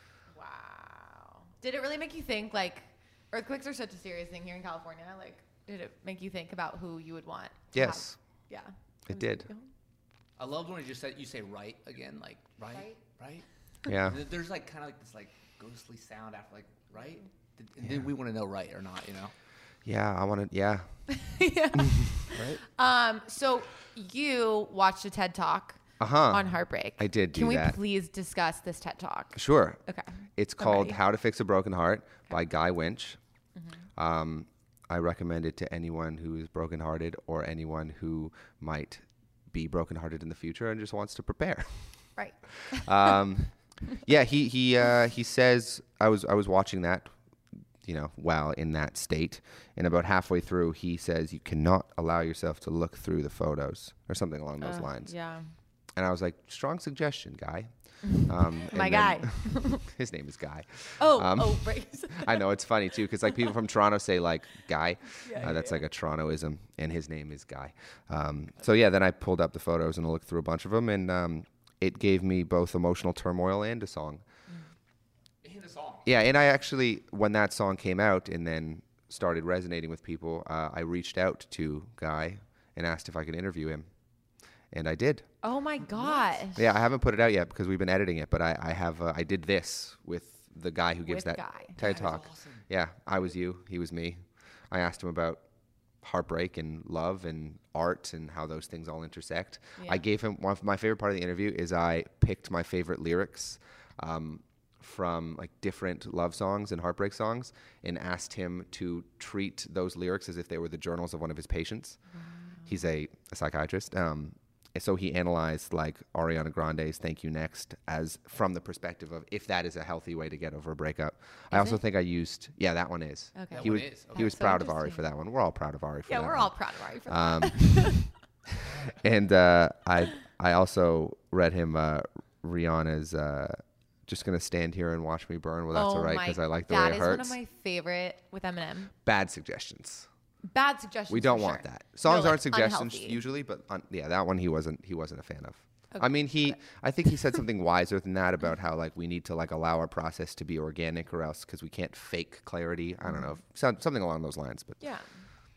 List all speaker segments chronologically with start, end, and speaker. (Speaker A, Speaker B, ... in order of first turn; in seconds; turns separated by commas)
Speaker A: 0.3-9.7, Speaker B: 7.7-8.2, Speaker B: 9.1-9.5, Speaker C: 10.4-19.3, Speaker A: 12.7-13.0, Speaker B: 13.9-14.2, Speaker B: 17.8-18.1, Speaker B: 19.8-20.9, Speaker A: 21.1-31.0, Speaker B: 21.8-22.1, Speaker C: 22.3-22.6, Speaker B: 26.0-27.8, Speaker B: 29.4-29.8, Speaker B: 30.4-33.2, Speaker A: 33.5-33.9, Speaker B: 34.0-41.9, Speaker A: 42.2-43.2, Speaker B: 42.7-47.1, Speaker B: 47.8-55.1, Speaker A: 54.6-55.5, Speaker B: 56.0-74.2, Speaker A: 58.6-59.9, Speaker A: 61.0-62.5, Speaker A: 65.1-65.8, Speaker C: 75.4-76.1, Speaker B: 76.1-83.9, Speaker B: 84.7-85.3, Speaker A: 85.4-86.7, Speaker C: 86.0-86.4, Speaker B: 86.5-94.2, Speaker A: 91.1-91.8, Speaker C: 91.8-92.7, Speaker B: 94.7-95.4, Speaker B: 96.0-112.0, Speaker A: 99.8-100.0, Speaker A: 112.1-112.8, Speaker B: 112.7-126.5, Speaker A: 121.5-121.8, Speaker A: 123.4-125.0, Speaker C: 123.5-124.6, Speaker A: 126.1-128.1, Speaker B: 127.1-128.1, Speaker B: 128.8-137.4, Speaker A: 135.7-138.9, Speaker B: 139.0-140.1, Speaker A: 140.4-143.2, Speaker B: 141.1-154.8, Speaker A: 145.9-146.6, Speaker A: 153.0-153.4, Speaker A: 154.8-155.1